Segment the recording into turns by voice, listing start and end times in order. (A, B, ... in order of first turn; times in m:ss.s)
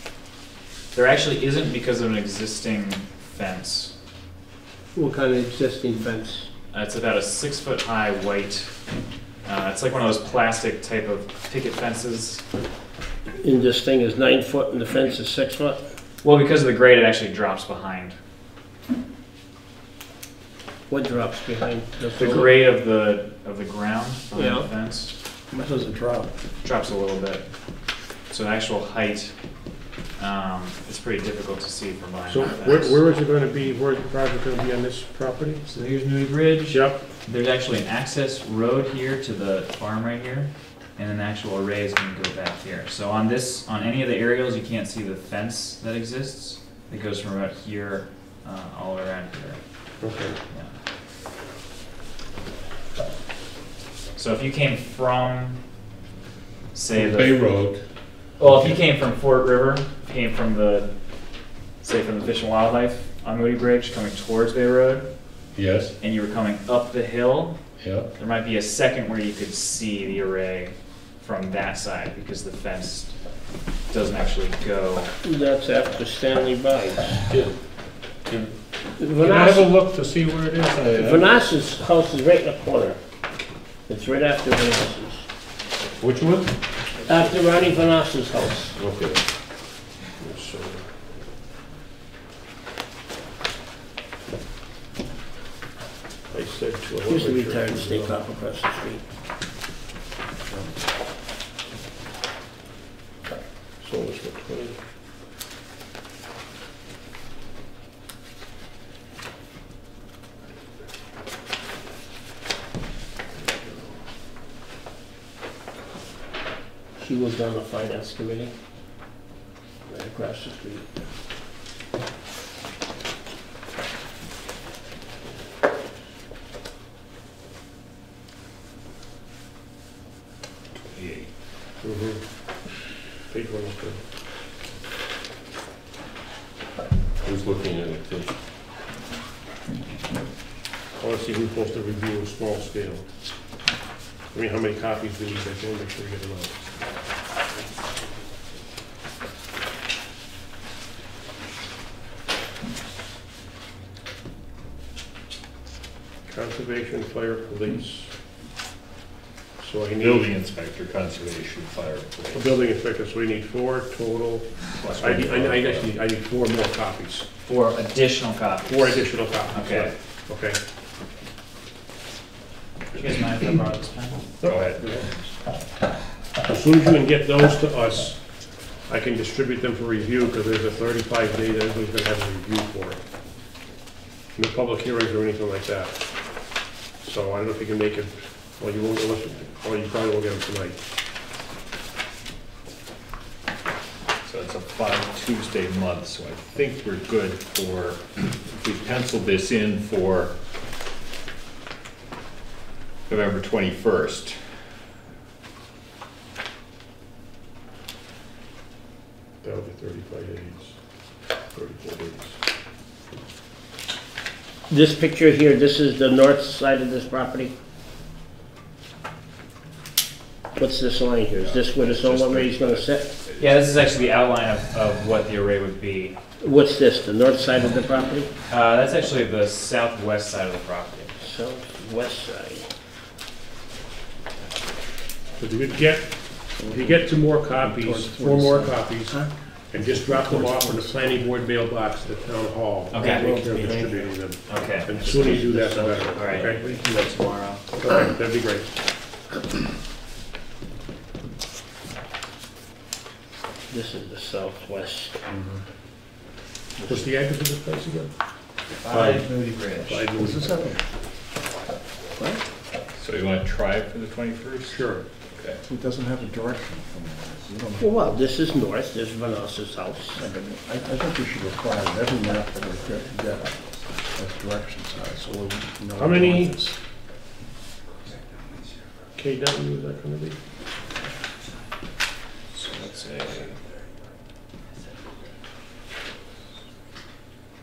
0:00.9-0:03.9 A
0:05.0-0:06.5 B
0:06.7-0:08.7 A
0:09.5-0:12.4 A
0:13.4-0:15.8 B
0:16.2-0:18.2 A
0:20.9-0:22.5 B
0:22.2-0:22.5 C
0:22.2-0:25.1 A
0:24.3-0:24.7 B
0:25.5-0:26.3 D
0:26.6-0:27.4 A
0:28.3-0:29.3 A
0:30.2-0:33.0 A
0:32.3-0:35.6 C
0:35.6-0:49.6 A
0:36.7-0:37.0 C
0:50.0-0:50.4 C
0:54.2-0:55.6 A
0:56.7-0:57.4 A
0:56.9-0:57.8 E
0:58.4-1:00.9 A
0:58.4-0:58.7 E
1:01.8-1:05.1 A
1:05.6-1:05.9 E
1:06.0-1:07.6 A
1:07.8-1:08.1 E
1:08.2-1:13.1 A
1:13.9-1:15.1 A
1:15.2-1:17.2 B
1:19.0-1:19.7 B
1:19.2-1:21.3 E
1:20.9-1:23.0 B
1:23.9-1:25.2 B
1:26.0-1:26.5 E
1:27.1-1:28.8 B
1:28.8-1:29.2 E
1:30.2-1:30.9 C
1:36.3-1:38.2 C
1:37.1-1:39.1 B
1:40.5-1:40.8 D
1:43.8-1:44.8 C
1:53.3-1:54.0 C
1:57.0-1:58.5 B
1:59.9-2:00.9 B
2:10.8-2:11.3 E
2:11.8-2:12.2 C
2:13.3-2:14.0 C
2:17.2-2:18.4 E
2:21.0-2:23.1 C
2:24.3-2:26.6 C
2:36.3-2:38.1 C
2:39.6-2:40.3 C
2:40.0-2:42.5 E
2:42.3-2:47.3 C
2:44.7-2:45.9 E
2:47.4-2:49.9 A
2:48.6-2:50.6 C
2:52.9-2:54.2 A
2:54.4-2:55.0 C
2:54.4-2:55.0 E
2:56.5-2:58.2 C
2:58.9-3:03.0 C
3:04.4-3:06.0 C
3:07.0-3:10.8 C
3:14.2-3:20.3 E
3:23.1-3:24.4 E
3:29.4-3:30.7 C
3:31.5-3:32.3 C
3:34.7-3:37.5 B
3:40.6-3:43.1 B
3:41.4-3:43.8 E
3:43.4-3:46.2 A
3:46.4-3:48.3 B
3:48.5-3:51.1 A
3:51.2-3:52.7 B
3:55.4-3:59.2 C
3:56.6-4:01.3 D
3:59.7-4:06.8 C
4:02.9-4:03.3 A
4:03.0-4:03.9 D
4:03.4-4:03.9 B
4:04.4-4:05.1 A
4:05.0-4:06.6 B
4:06.1-4:07.6 A
4:07.7-4:08.8 C
4:13.7-4:15.1 B
4:16.8-4:17.1 D
4:16.9-4:18.1 C
4:18.8-4:20.1 A
4:18.9-4:19.3 C
4:19.8-4:20.7 C
4:20.1-4:20.9 D
4:22.2-4:22.4 D
4:23.0-4:25.6 E
4:24.7-4:25.1 C
4:25.6-4:28.2 D
4:27.8-4:30.2 B
4:30.2-4:36.8 D
4:36.0-4:36.6 C
4:39.2-4:40.4 C
4:42.5-4:43.6 A